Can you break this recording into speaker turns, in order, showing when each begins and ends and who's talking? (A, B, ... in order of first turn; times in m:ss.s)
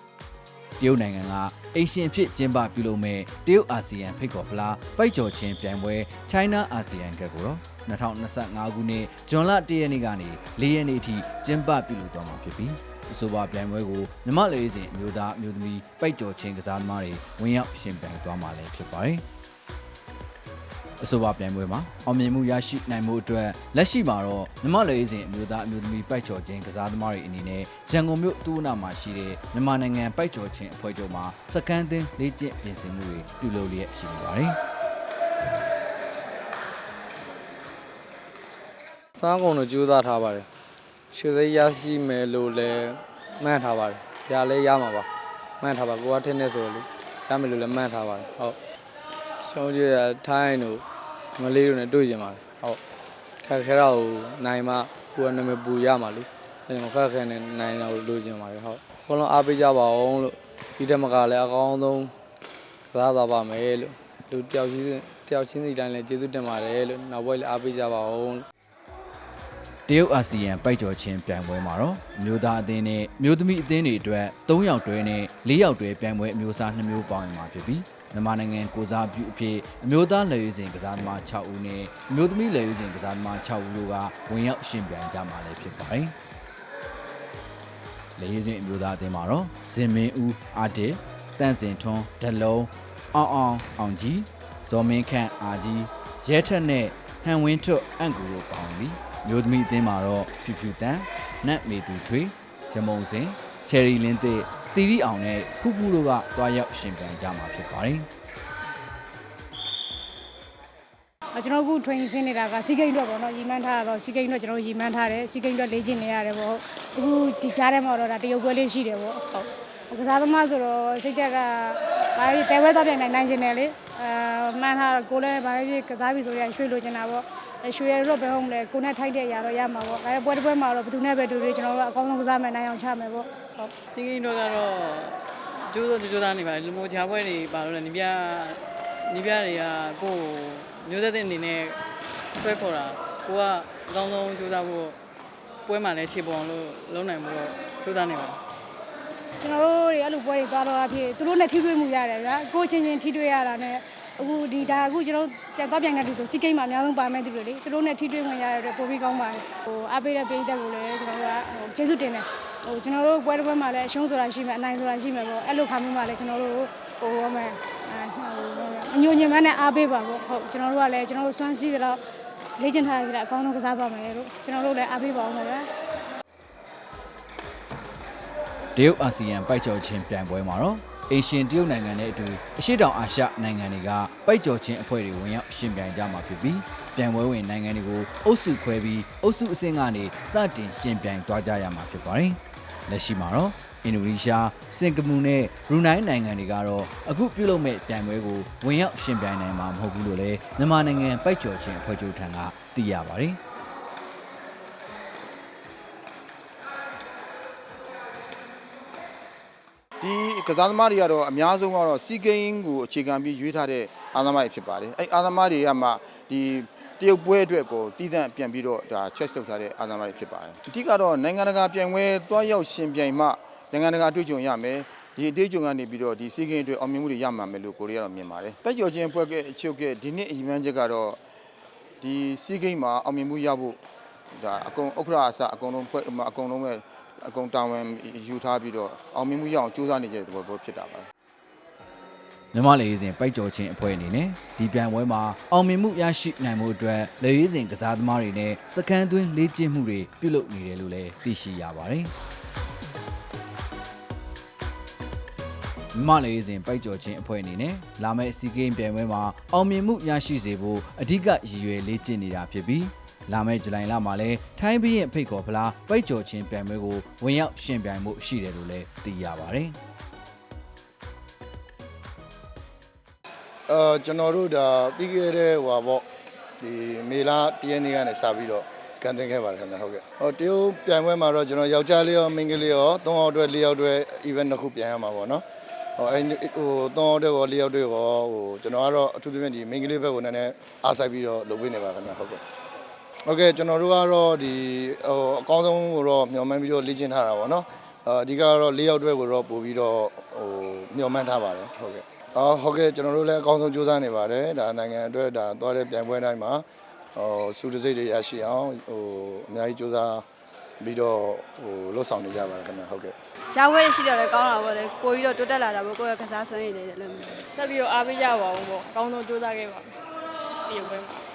0:00.8-0:19.2 A
0:21.0-0:34.6 A
0:39.2-0:40.5 B
0:41.1-0:45.1 B
0:45.6-0:48.6 B
0:49.4-0:50.8 B
0:51.4-0:52.8 B
0:53.4-1:02.1 B
1:02.9-1:08.4 B
1:09.9-1:26.1 A
1:28.2-1:48.1 A
1:51.3-2:13.3 C
2:13.6-2:21.8 D
2:22.4-2:25.0 D
2:25.6-2:28.4 D
2:29.4-2:52.0 C
2:52.6-2:55.7 C
2:58.7-3:23.4 A
3:30.0-3:51.2 E
3:52.0-3:53.8 E
3:54.3-4:01.1 E
4:02.5-4:12.1 A
4:15.9-4:29.8 A
4:33.7-4:36.0 F
4:36.6-4:45.4 F
4:46.0-4:52.4 F
4:53.3-5:06.6 F
5:07.2-5:10.2 F
5:10.8-5:13.1 F
5:13.5-5:17.4 G
5:17.5-5:20.0 H
5:20.7-5:21.2 H